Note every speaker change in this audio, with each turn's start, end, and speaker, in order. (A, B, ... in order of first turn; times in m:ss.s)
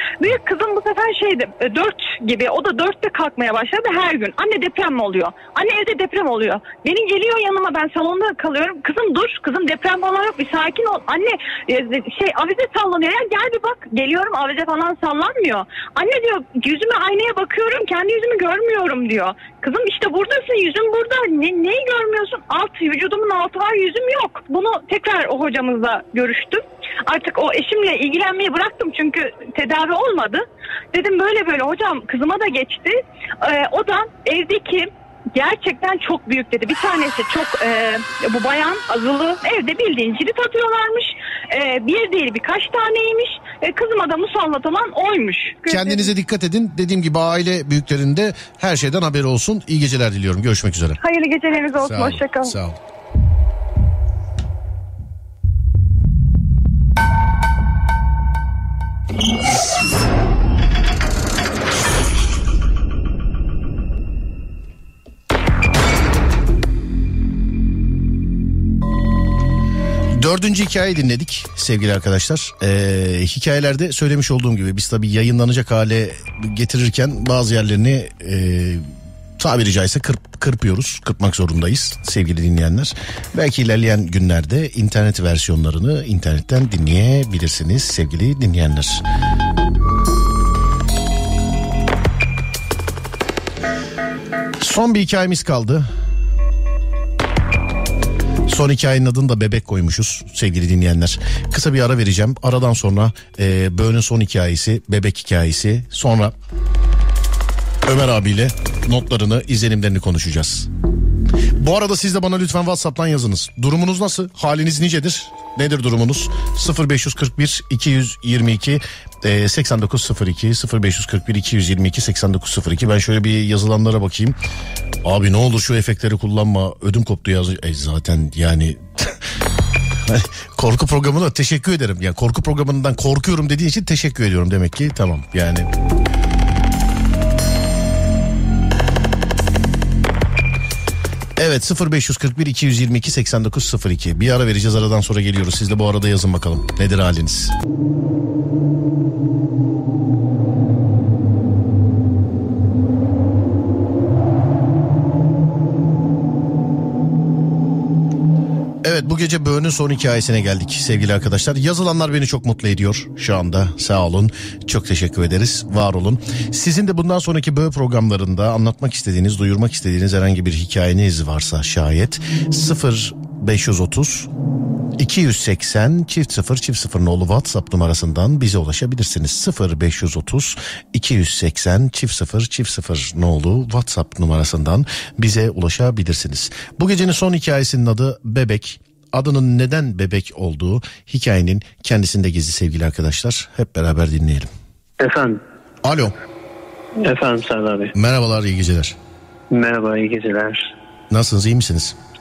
0:00.2-0:46.1 A
0:45.7-0:51.0 B
0:51.0-0:52.6 A
0:51.8-0:52.8 B
1:10.1-1:29.0 B
1:34.6-1:35.9 B
1:38.5-1:46.3 B
1:47.8-1:50.7 B
1:51.6-2:04.4 B
2:05.0-2:09.2 B
2:10.0-2:15.7 B
2:21.4-2:27.5 B
2:38.8-2:54.3 B
2:55.0-3:14.5 B
3:15.0-3:15.4 C
3:15.8-3:16.1 B
3:17.0-3:17.9 C
3:17.9-3:19.0 B
3:19.5-3:20.7 C
3:21.1-3:22.0 B